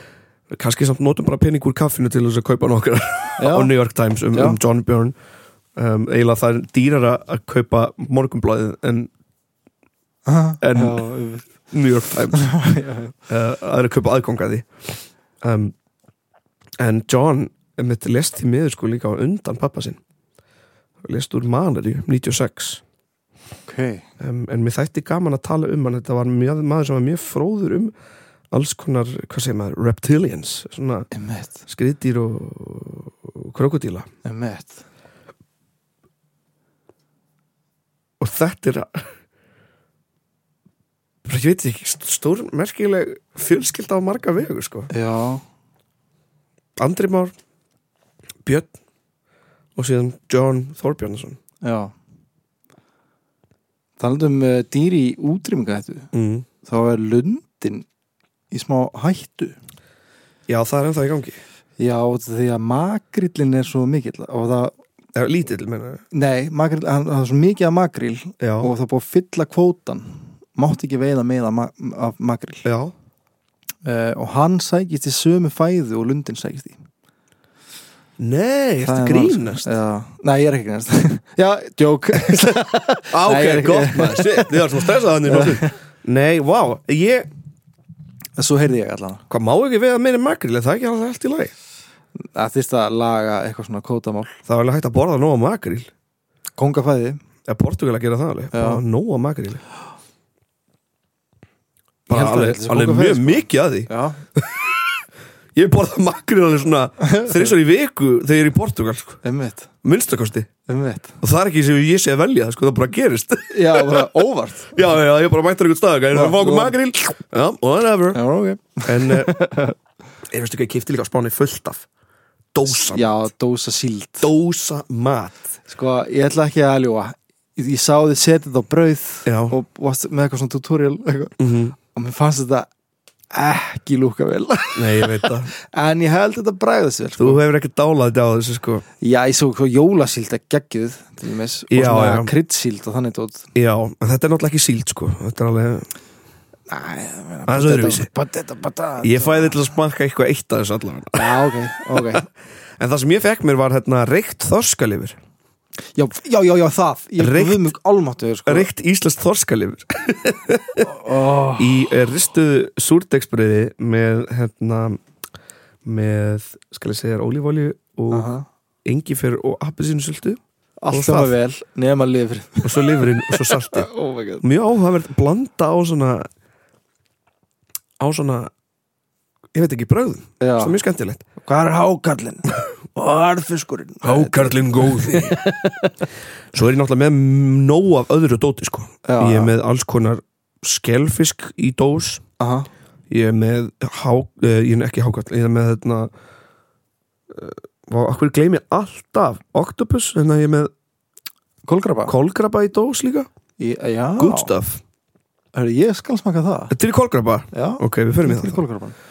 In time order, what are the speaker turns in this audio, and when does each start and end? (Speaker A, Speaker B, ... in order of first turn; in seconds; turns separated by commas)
Speaker A: 0.5-5.2, Speaker B: 3.4-3.7, Speaker B: 4.3-4.6, Speaker A: 5.8-9.1, Speaker B: 10.3-11.5, Speaker A: 10.6-11.0, Speaker A: 11.7-12.6, Speaker B: 12.3-13.1, Speaker A: 13.3-15.7, Speaker A: 16.8-20.0, Speaker A: 21.0-22.8, Speaker B: 23.7-24.1, Speaker A: 24.2-27.9, Speaker A: 28.5-31.1, Speaker B: 31.1-31.6, Speaker A: 31.7-34.1, Speaker B: 34.2-34.8, Speaker A: 38.2-39.0, Speaker A: 41.2-44.9, Speaker B: 44.9-45.4, Speaker A: 46.8-47.3, Speaker A: 48.4-48.7, Speaker A: 49.8-51.4, Speaker B: 51.6-51.9, Speaker B: 54.0-56.1, Speaker A: 56.1-56.5, Speaker B: 56.6-57.9, Speaker B: 58.5-59.6, Speaker A: 60.5-61.4, Speaker B: 61.8-64.8, Speaker A: 65.2-66.0, Speaker B: 66.1-72.7, Speaker A: 68.4-68.7, Speaker A: 72.6-72.9, Speaker B: 73.8-76.8, Speaker A: 78.2-79.8, Speaker B: 78.8-85.8, Speaker A: 83.1-87.3, Speaker B: 88.4-89.2, Speaker A: 89.3-91.5, Speaker B: 92.2-94.4, Speaker A: 94.5-95.9, Speaker B: 96.6-97.2, Speaker A: 97.5-99.6, Speaker B: 98.5-98.8, Speaker B: 102.1-104.2, Speaker A: 102.1-104.9, Speaker A: 105.5-109.2, Speaker B: 107.0-107.5, Speaker B: 109.2-109.7, Speaker A: 109.8-110.5, Speaker B: 110.7-111.2, Speaker A: 111.2-114.1, Speaker B: 113.5-114.7, Speaker A: 114.7-118.2, Speaker B: 116.1-116.8, Speaker B: 118.1-119.7, Speaker A: 118.8-119.4, Speaker A: 120.3-121.9, Speaker A: 122.5-123.1, Speaker B: 122.7-124.3, Speaker A: 124.2-125.4, Speaker B: 125.7-131.4, Speaker A: 129.3-129.6, Speaker A: 131.4-131.8, Speaker B: 131.9-132.7, Speaker B: 133.3-137.4, Speaker A: 134.8-135.5, Speaker A: 137.2-138.8, Speaker B: 139.0-143.5, Speaker A: 141.7-142.3, Speaker A: 143.6-145.9, Speaker B: 146.7-149.6, Speaker A: 147.5-148.1, Speaker A: 149.0-152.2, Speaker B: 151.1-152.3, Speaker A: 152.8-155.2, Speaker B: 155.9-158.7, Speaker A: 157.2-157.7, Speaker A: 158.5-160.9, Speaker B: 160.8-161.8, Speaker A: 161.6-165.0, Speaker A: 165.8-168.3, Speaker B: 168.1-168.5, Speaker A: 168.8-170.4, Speaker B: 170.8-174.5, Speaker A: 170.9-171.3, Speaker A: 172.6-173.9, Speaker A: 174.4-176.3, Speaker A: 178.0-178.5, Speaker A: 179.5-181.2, Speaker B: 180.4-180.8, Speaker B: 181.4-185.9, Speaker A: 184.0-185.4, Speaker A: 186.5-192.2, Speaker B: 189.1-189.5, Speaker B: 192.4-192.7, Speaker A: 193.1-196.1, Speaker A: 197.3-200.7, Speaker B: 201.7-202.2, Speaker A: 202.1-203.3, Speaker B: 203.6-204.6, Speaker A: 204.2-204.8, Speaker B: 205.5-206.8, Speaker A: 206.7-208.6, Speaker B: 207.5-209.0